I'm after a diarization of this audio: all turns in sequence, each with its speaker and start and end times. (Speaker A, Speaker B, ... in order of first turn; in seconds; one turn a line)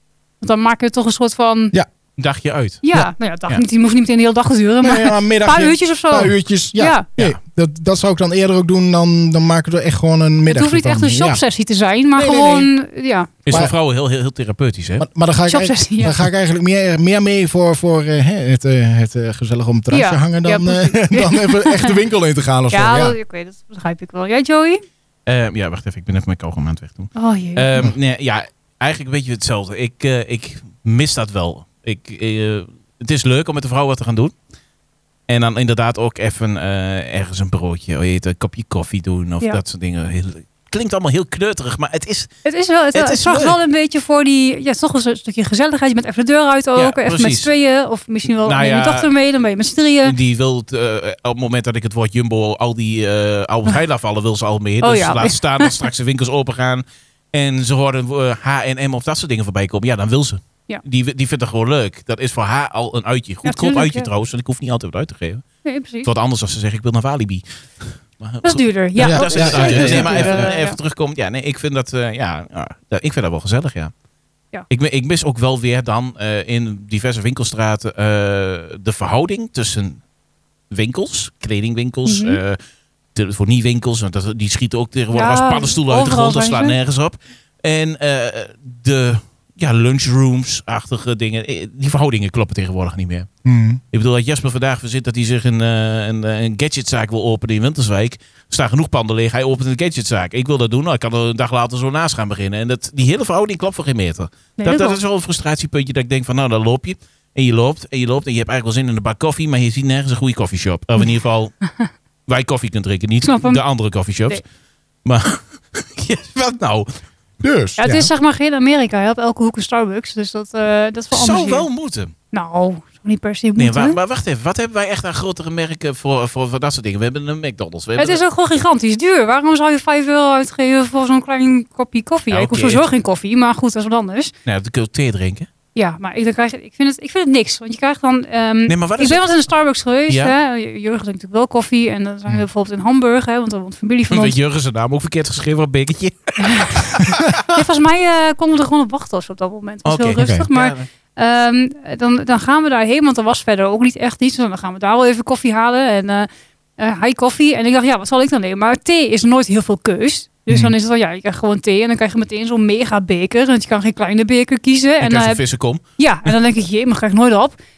Speaker A: 0.4-1.8
Speaker B: 2.2-2.8
Speaker A: 2.8-7.1
Speaker C: 4.8-11.4
Speaker A: 10.5-13.4
Speaker C: 12.2-12.7
Speaker B: 13.5-15.1
Speaker C: 15.0-23.2
Speaker A: 15.5-16.2
Speaker A: 19.9-22.0
Speaker A: 22.7-24.8
Speaker B: 25.3-34.3
Speaker A: 27.2-27.7
Speaker B: 35.3-42.3
Speaker A: 42.4-50.1
Speaker B: 42.9-43.6
Speaker B: 46.8-47.5
Speaker B: 48.4-49.1
Speaker B: 50.0-65.4
Speaker A: 54.8-55.7
Speaker A: 63.5-64.1
Speaker A: 65.6-66.1
Speaker B: 66.0-73.9
Speaker A: 68.4-70.8
Speaker C: 69.0-70.5
Speaker B: 74.7-80.0
Speaker B: 80.7-82.6
Speaker A: 82.0-82.4
Speaker B: 83.2-93.3
Speaker A: 85.1-86.8
Speaker C: 93.5-93.8
Speaker B: 93.9-111.6
Speaker A: 104.6-105.0
Speaker B: 112.3-114.4
Speaker A: 113.2-113.6
Speaker B: 115.0-116.9
Speaker C: 117.4-118.1
Speaker A: 117.8-121.7
Speaker B: 121.1-122.1
Speaker A: 122.3-124.0
Speaker B: 123.6-128.2
Speaker A: 128.0-134.3
Speaker B: 132.3-132.8
Speaker B: 134.5-135.5
Speaker A: 135.8-144.4
Speaker B: 138.7-139.2
Speaker B: 144.1-147.4
Speaker A: 146.4-165.4
Speaker B: 149.8-150.9
Speaker C: 150.2-150.4
Speaker B: 165.0-165.8
Speaker A: 166.0-167.6